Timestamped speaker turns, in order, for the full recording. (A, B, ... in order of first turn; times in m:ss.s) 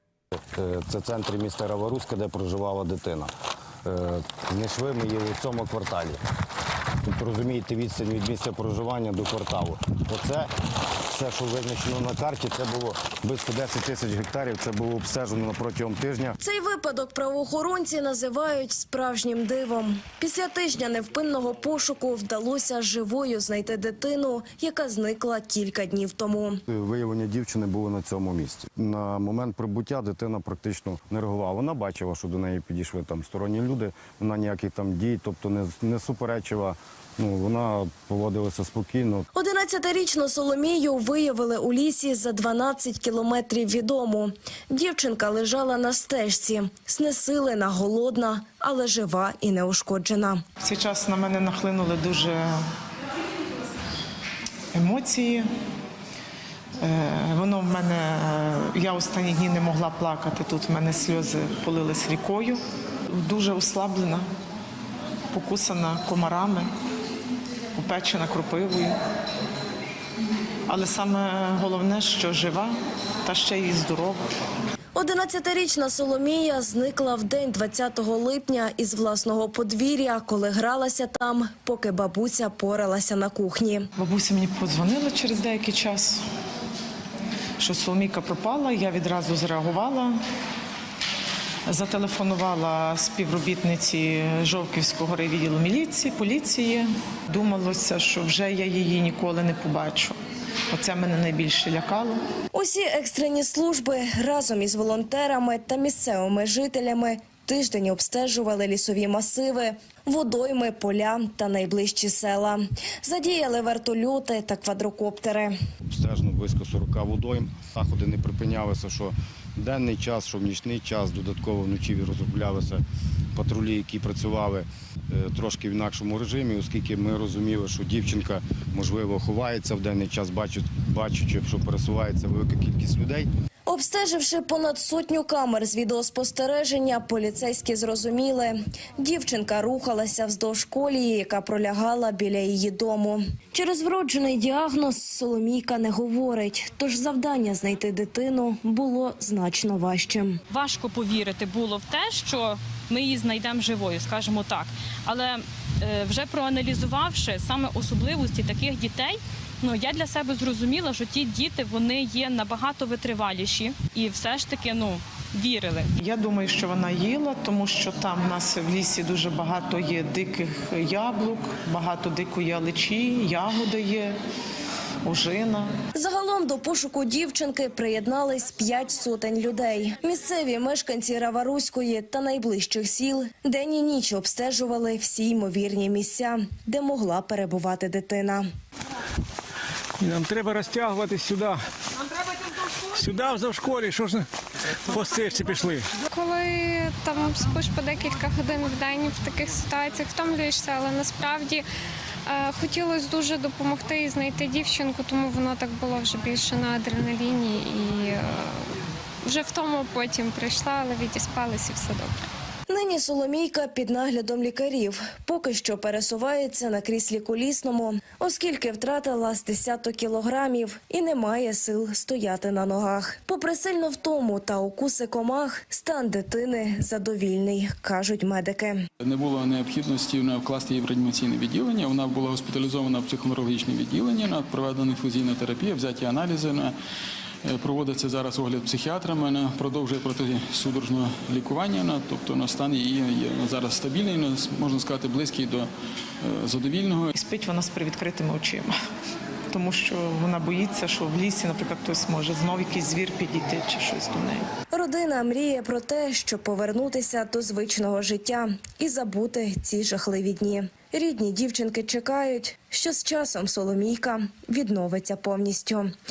0:00.5-0:03.3 A
0:03.8-0:06.2 A
0:07.0-0:10.5 A
0:11.1-0:16.4 A
0:16.4-0:26.6 B
0:26.7-0:39.2 A
0:39.3-0:50.4 B
0:50.6-0:52.7 C
0:54.7-0:55.5 C
0:56.8-1:04.3 C
1:05.3-1:06.7 C
1:07.8-1:09.0 C
1:10.7-1:14.3 C
1:15.0-1:23.9 B
1:24.0-1:26.2 C
1:27.6-1:30.2 C
1:31.7-1:40.2 C
1:40.7-1:42.2 C
1:42.5-1:55.6 B
1:55.9-2:02.8 A
2:03.3-2:13.3 A
2:13.7-2:30.4 B
2:30.5-2:45.9 D
2:46.0-2:54.2 C
2:55.0-2:55.8 C
2:55.9-3:08.4 B
3:10.0-3:11.6 E
3:12.9-3:14.2 E
3:14.9-3:15.8 E
3:16.1-3:21.6 F
3:22.2-3:28.6 F
3:29.2-3:32.2 F
3:32.7-3:48.8 B
3:49.0-3:56.7 G
3:57.4-4:05.7 G
4:06.2-4:07.1 G
4:07.1-4:08.7 C
4:09.5-4:14.5 C
4:14.7-4:25.9 B